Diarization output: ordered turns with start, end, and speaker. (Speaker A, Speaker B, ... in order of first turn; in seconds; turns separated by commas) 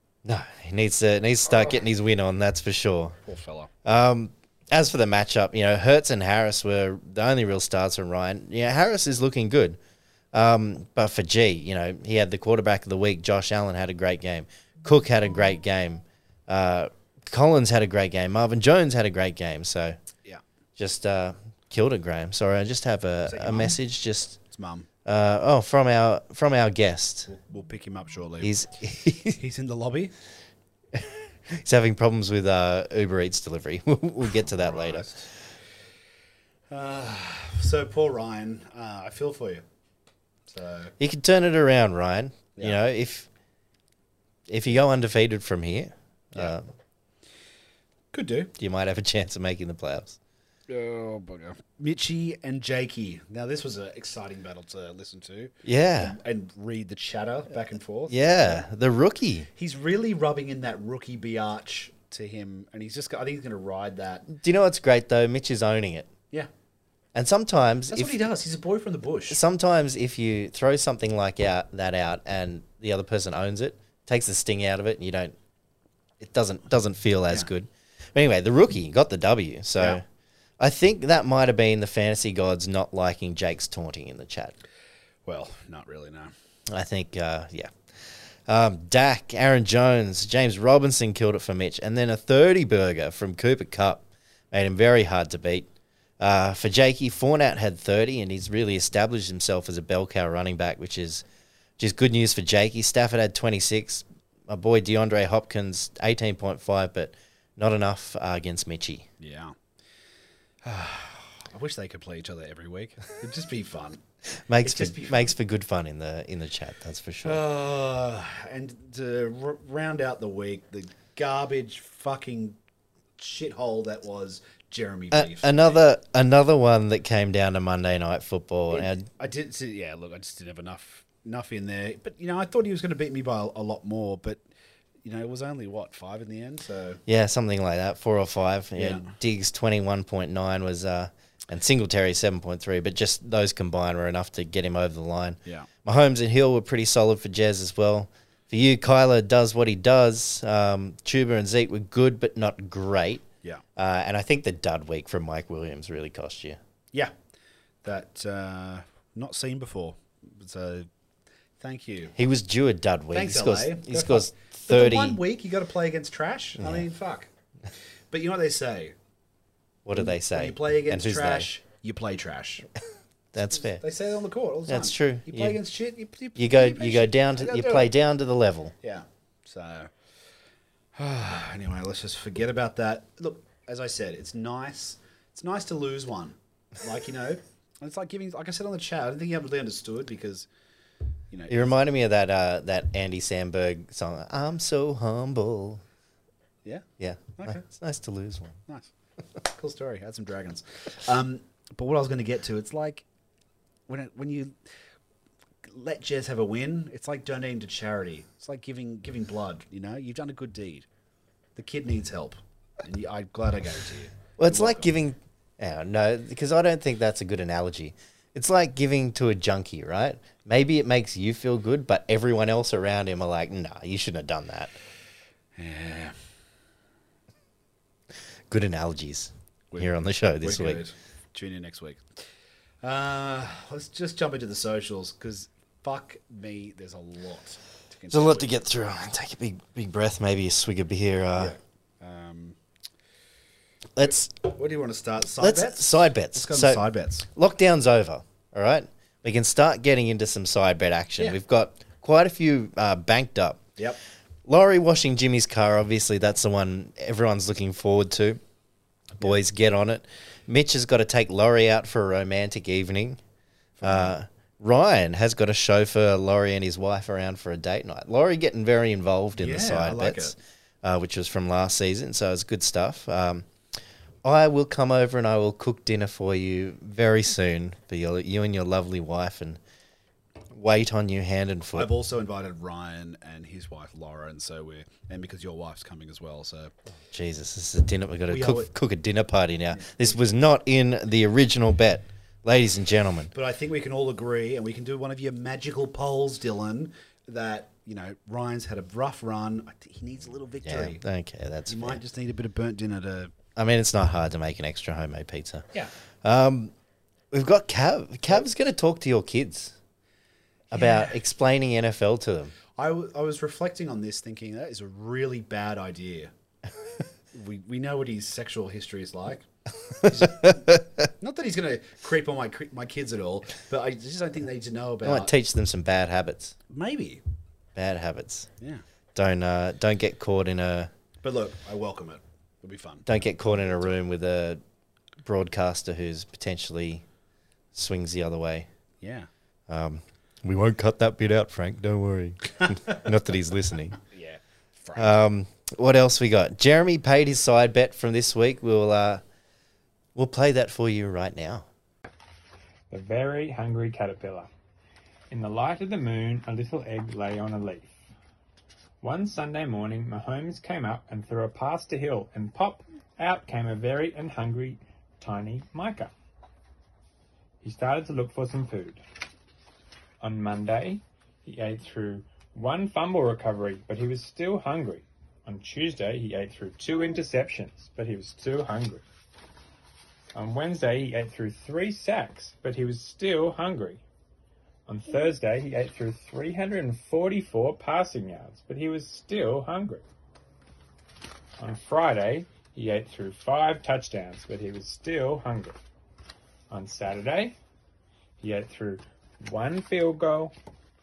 Speaker A: 0.2-3.2, Speaker B: 3.2-3.7, Speaker A: 3.8-9.8, Speaker A: 10.3-20.0, Speaker A: 20.8-24.4, Speaker B: 23.3-23.8, Speaker B: 24.5-24.9, Speaker A: 25.1-27.3, Speaker B: 27.3-28.5, Speaker A: 28.4-29.4, Speaker B: 29.3-30.1, Speaker A: 30.9-35.1, Speaker B: 34.5-35.3, Speaker B: 36.7-39.6, Speaker B: 40.5-40.9, Speaker A: 41.0-43.3, Speaker A: 44.5-46.7, Speaker B: 48.1-48.5, Speaker A: 48.6-50.2, Speaker B: 50.7-58.6, Speaker A: 55.6-56.2, Speaker A: 58.1-59.5, Speaker B: 59.5-64.3, Speaker A: 64.3-66.1, Speaker A: 67.1-68.2, Speaker B: 67.9-69.4, Speaker A: 69.3-75.3, Speaker A: 76.2-80.0, Speaker A: 80.6-84.5, Speaker B: 85.3-86.3, Speaker A: 86.7-95.7, Speaker A: 96.2-101.2, Speaker A: 101.8-109.1, Speaker B: 109.2-109.6, Speaker B: 110.6-114.0, Speaker A: 114.5-117.4, Speaker B: 114.6-115.3, Speaker B: 117.2-122.6, Speaker B: 123.2-125.8, Speaker A: 125.1-129.1, Speaker B: 128.7-134.4, Speaker B: 135.0-137.0, Speaker A: 137.1-153.2, Speaker B: 138.8-139.1, Speaker A: 153.8-156.6, Speaker B: 157.8-160.9, Speaker B: 161.6-162.1, Speaker A: 162.2-165.2, Speaker B: 163.1-167.3, Speaker A: 166.6-166.9, Speaker B: 168.1-168.9, Speaker A: 169.8-171.5, Speaker B: 169.9-172.7, Speaker A: 173.3-173.8, Speaker B: 173.6-177.9, Speaker A: 174.7-175.6, Speaker A: 176.4-178.8, Speaker B: 178.8-179.9, Speaker B: 180.9-190.5, Speaker B: 191.3-191.7, Speaker A: 191.5-195.8, Speaker A: 197.0-198.6, Speaker B: 197.4-197.7, Speaker B: 198.7-203.0, Speaker B: 203.9-204.6, Speaker B: 205.6-210.9, Speaker B: 211.6-214.9, Speaker A: 214.4-224.8, Speaker B: 225.6-226.2, Speaker A: 228.5-230.8, Speaker B: 229.7-232.1, Speaker B: 232.8-238.5, Speaker A: 238.1-241.6, Speaker B: 241.3-242.6, Speaker A: 244.0-244.3, Speaker B: 244.3-247.3, Speaker A: 245.4-253.7, Speaker A: 254.5-258.4, Speaker A: 259.2-263.2, Speaker B: 263.8-264.1, Speaker A: 263.8-273.5, Speaker B: 269.4-270.4, Speaker A: 274.2-279.6, Speaker A: 280.5-281.9, Speaker B: 281.8-286.7, Speaker A: 287.1-293.3, Speaker B: 288.3-288.7, Speaker B: 289.8-290.1, Speaker B: 293.3-301.0, Speaker A: 300.6-302.0, Speaker B: 301.7-303.3, Speaker A: 303.6-305.7, Speaker A: 306.2-306.7, Speaker A: 307.3-309.8, Speaker A: 310.7-312.6, Speaker B: 310.7-311.1, Speaker B: 312.8-316.3, Speaker B: 317.3-319.5, Speaker A: 320.0-321.0, Speaker B: 320.0-325.3, Speaker A: 325.0-326.6, Speaker B: 326.7-327.2, Speaker A: 327.8-328.5, Speaker A: 329.1-330.9, Speaker B: 331.2-333.9, Speaker A: 333.1-334.6, Speaker A: 335.2-337.1, Speaker A: 337.7-338.7, Speaker B: 339.0-339.3, Speaker A: 339.7-344.0, Speaker B: 344.1-345.2, Speaker A: 345.0-349.2, Speaker A: 350.1-351.7, Speaker C: 352.9-354.5, Speaker C: 355.3-358.0, Speaker C: 359.0-366.1, Speaker C: 367.6-369.0, Speaker C: 370.2-379.0, Speaker C: 380.4-384.0, Speaker C: 384.9-390.0, Speaker C: 391.6-395.8, Speaker C: 396.7-397.6, Speaker C: 398.4-400.5